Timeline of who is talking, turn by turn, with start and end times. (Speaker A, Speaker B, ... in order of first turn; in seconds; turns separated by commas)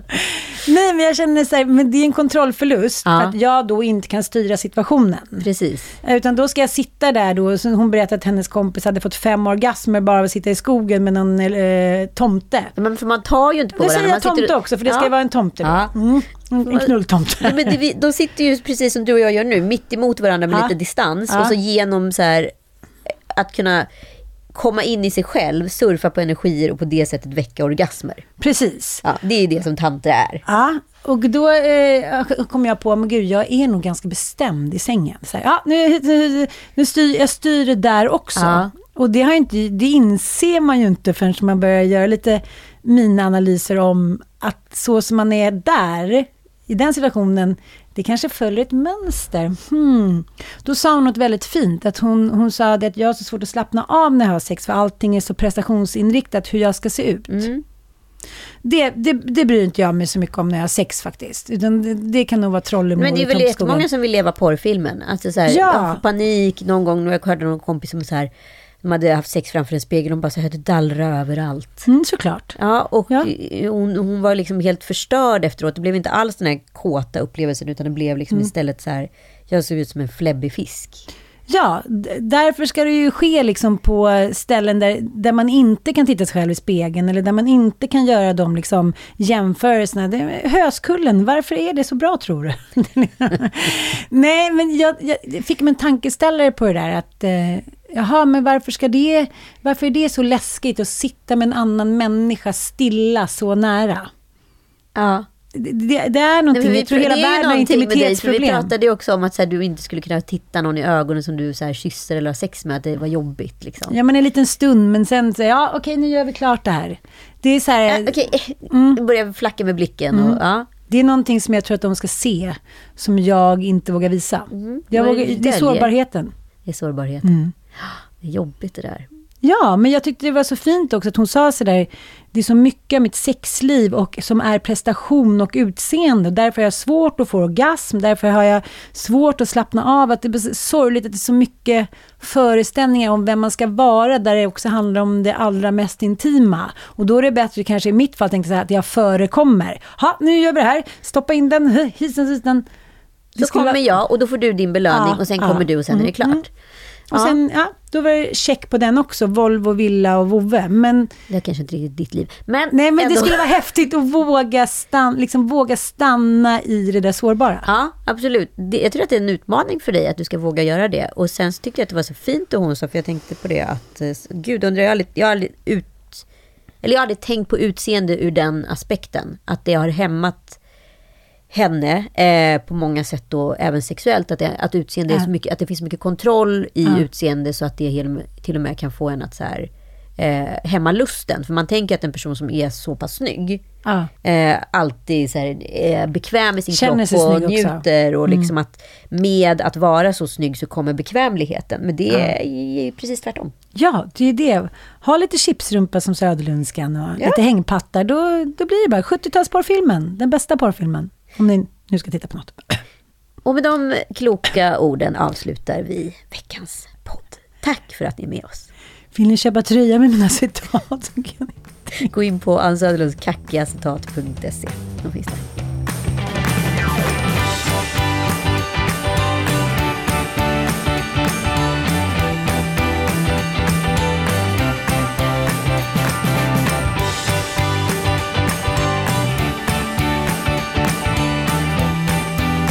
Speaker A: 0.1-5.4, Speaker B: 3.0-3.3, Speaker B: 5.4-5.9, Speaker A: 6.0-12.7, Speaker B: 12.8-15.1, Speaker A: 13.8-17.7, Speaker B: 15.6-15.9, Speaker B: 16.6-22.5, Speaker A: 21.3-21.5, Speaker B: 23.3-23.9, Speaker B: 24.5-28.2, Speaker A: 28.4-29.0, Speaker B: 29.0-30.4, Speaker A: 30.4-57.5, Speaker B: 38.4-38.7, Speaker B: 57.3-57.6, Speaker A: 58.6-63.8, Speaker B: 63.0-68.3, Speaker A: 65.5-66.0, Speaker B: 68.8-71.9, Speaker A: 71.9-72.6, Speaker B: 72.5-81.0, Speaker A: 81.5-104.1, Speaker B: 104.9-105.3, Speaker A: 105.5-108.7, Speaker B: 106.5-113.9, Speaker A: 113.9-118.1, Speaker B: 117.9-120.7, Speaker A: 118.7-119.0, Speaker A: 120.1-126.3, Speaker B: 124.5-125.9, Speaker B: 126.7-129.1, Speaker A: 127.2-127.5, Speaker A: 129.4-152.6, Speaker B: 153.3-156.5, Speaker A: 153.4-153.8, Speaker A: 154.9-156.4, Speaker B: 157.1-157.4, Speaker A: 157.1-161.1, Speaker B: 161.3-163.5, Speaker A: 162.7-167.7, Speaker B: 167.6-176.2, Speaker B: 176.8-180.6, Speaker B: 181.5-193.6, Speaker B: 194.2-203.5, Speaker A: 196.7-198.5, Speaker A: 203.8-212.8, Speaker B: 213.4-218.7, Speaker A: 219.1-222.1, Speaker B: 222.0-225.4